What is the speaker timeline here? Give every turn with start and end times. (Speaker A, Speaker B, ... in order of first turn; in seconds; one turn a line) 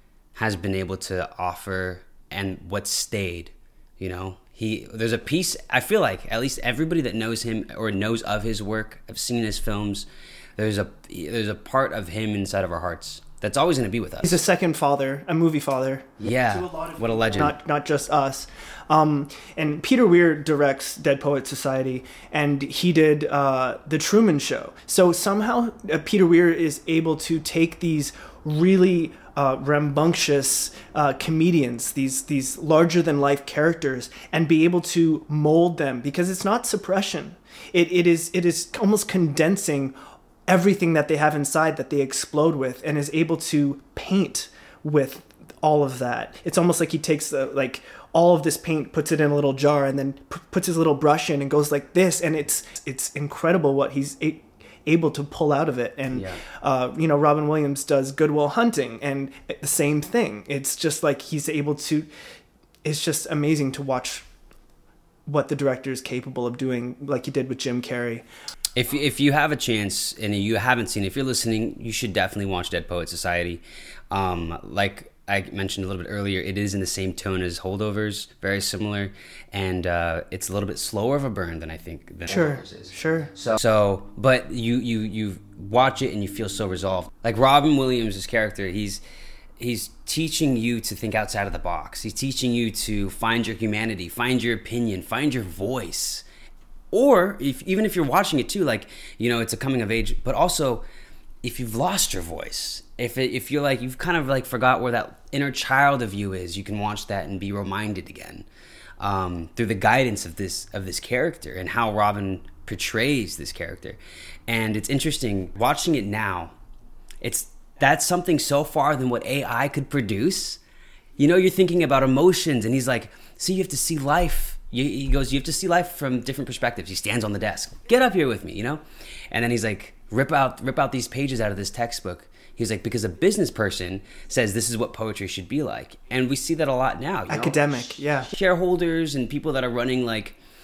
Speaker A: 0.3-14.4
Speaker B: 14.2-39.9
Speaker A: 16.2-17.6
Speaker B: 40.5-62.1
Speaker A: 56.1-56.4
Speaker B: 62.8-64.3
Speaker B: 65.2-68.2
Speaker A: 68.8-89.0
Speaker B: 82.3-83.3
Speaker A: 89.6-96.2
Speaker A: 96.9-100.8
Speaker A: 101.4-108.5
Speaker A: 109.0-116.5
Speaker A: 117.2-120.6
Speaker A: 121.2-140.4
Speaker B: 137.3-138.3